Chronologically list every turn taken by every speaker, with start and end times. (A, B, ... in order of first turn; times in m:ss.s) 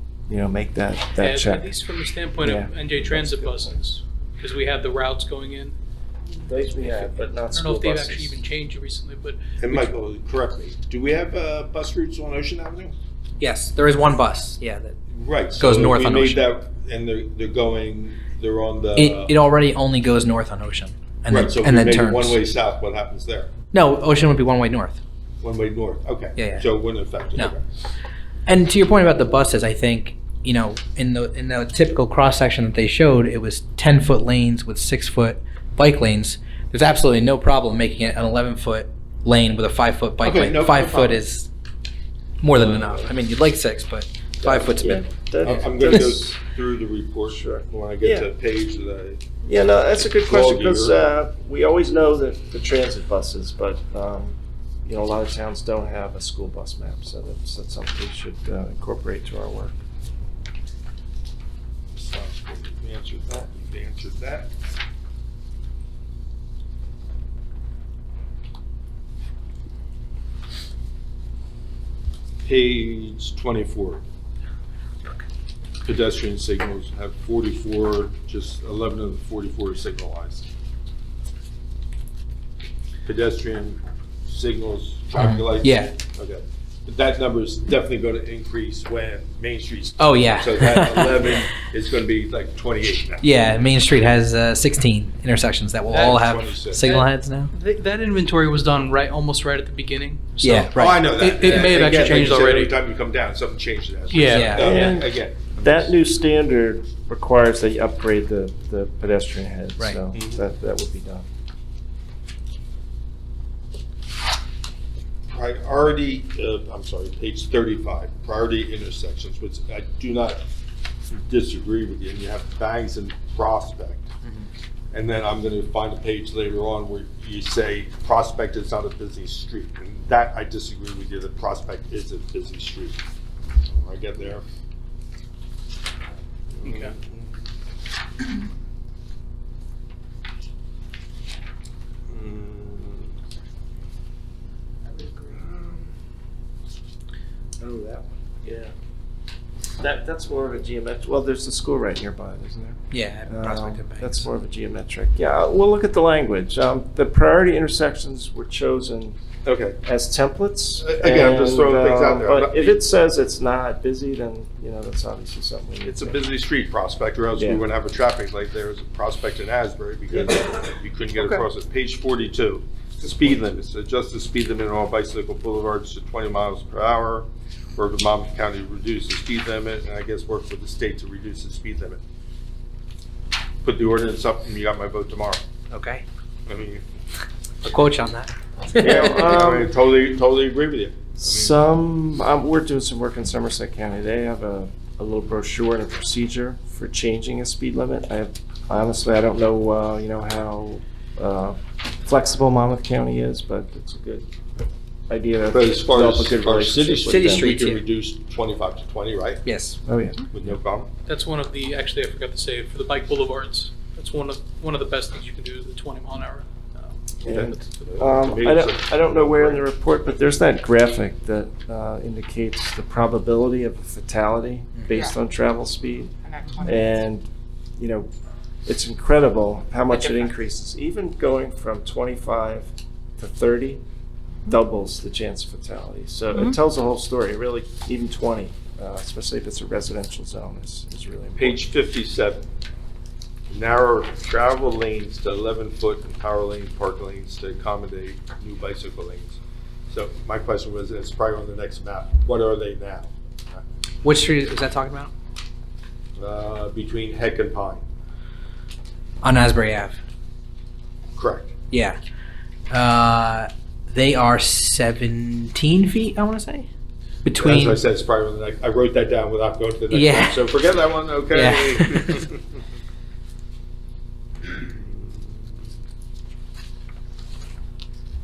0:00.3-0:01.7 A
0:01.2-0:05.7 B
0:02.4-0:03.8 A
0:06.4-0:08.4 A
0:07.5-0:09.8 B
0:09.6-0:12.9 C
0:13.4-0:15.0 D
0:15.1-0:19.3 C
0:15.6-0:16.5 D
0:18.9-0:22.4 D
0:21.3-0:23.5 C
0:23.7-0:25.0 D
0:25.4-0:27.6 C
0:26.4-0:26.6 D
0:28.4-0:41.5 D
0:40.2-0:41.2 C
0:42.4-0:45.1 D
0:42.5-0:43.1 C
0:44.4-0:46.4 A
0:45.4-0:49.2 C
0:47.3-0:48.3 A
0:49.4-0:59.8 A
0:50.3-0:51.0 C
1:01.9-1:04.5 C
1:12.4-1:14.0 C
1:15.8-1:20.5 C
1:23.0-1:33.2 C
1:25.2-1:25.9 D
1:30.0-1:31.4 D
1:33.2-1:37.5 D
1:35.9-1:36.2 B
1:35.9-1:36.8 C
1:36.8-1:42.7 B
1:40.4-1:41.7 D
1:40.7-1:45.9 C
1:44.1-1:44.6 B
1:44.3-1:44.7 D
1:44.6-1:51.3 A
1:50.1-1:50.4 C
1:55.3-2:00.4 C
2:01.1-2:04.1 C
2:04.2-2:04.5 D
2:04.9-2:13.0 C
2:13.6-2:14.4 C
2:16.5-2:17.3 C
2:16.6-2:16.9 B
2:22.1-2:23.1 C
2:24.9-2:25.9 C
2:27.6-2:28.1 C
2:28.4-2:28.7 A
2:29.8-2:39.2 A
2:32.9-2:34.3 D
2:39.4-2:39.8 C
2:39.8-2:46.2 A
2:40.8-2:42.8 C
2:45.8-3:02.0 C
2:47.4-2:47.6 A
2:50.1-2:50.5 A
2:51.2-2:51.4 A
2:53.0-2:53.3 A
3:03.6-3:05.4 C
3:05.7-3:06.0 D
3:06.5-3:06.8 C
3:07.6-3:09.4 D
3:08.8-3:11.5 C
3:08.8-3:09.7 A
3:11.2-3:24.3 A
3:25.1-3:27.5 A
3:25.5-3:29.4 C
3:27.1-3:27.8 D
3:29.4-3:29.8 D
3:29.8-3:30.6 A
3:30.3-3:30.9 C
3:31.1-3:37.0 B
3:37.2-3:39.6 C
3:37.2-3:48.1 A
3:44.8-3:45.0 D
3:48.6-3:53.8 A
3:54.4-4:01.6 A
4:01.4-4:02.4 C
4:03.5-4:13.6 C
4:14.0-4:15.1 D
4:16.2-4:17.8 C
4:19.2-4:20.0 D
4:21.2-4:21.5 C
4:21.7-4:22.0 D
4:22.7-4:26.7 D
4:27.2-4:27.8 D
4:27.4-4:32.4 C
4:29.9-4:30.4 D
4:31.3-4:32.2 D
4:34.5-4:35.7 C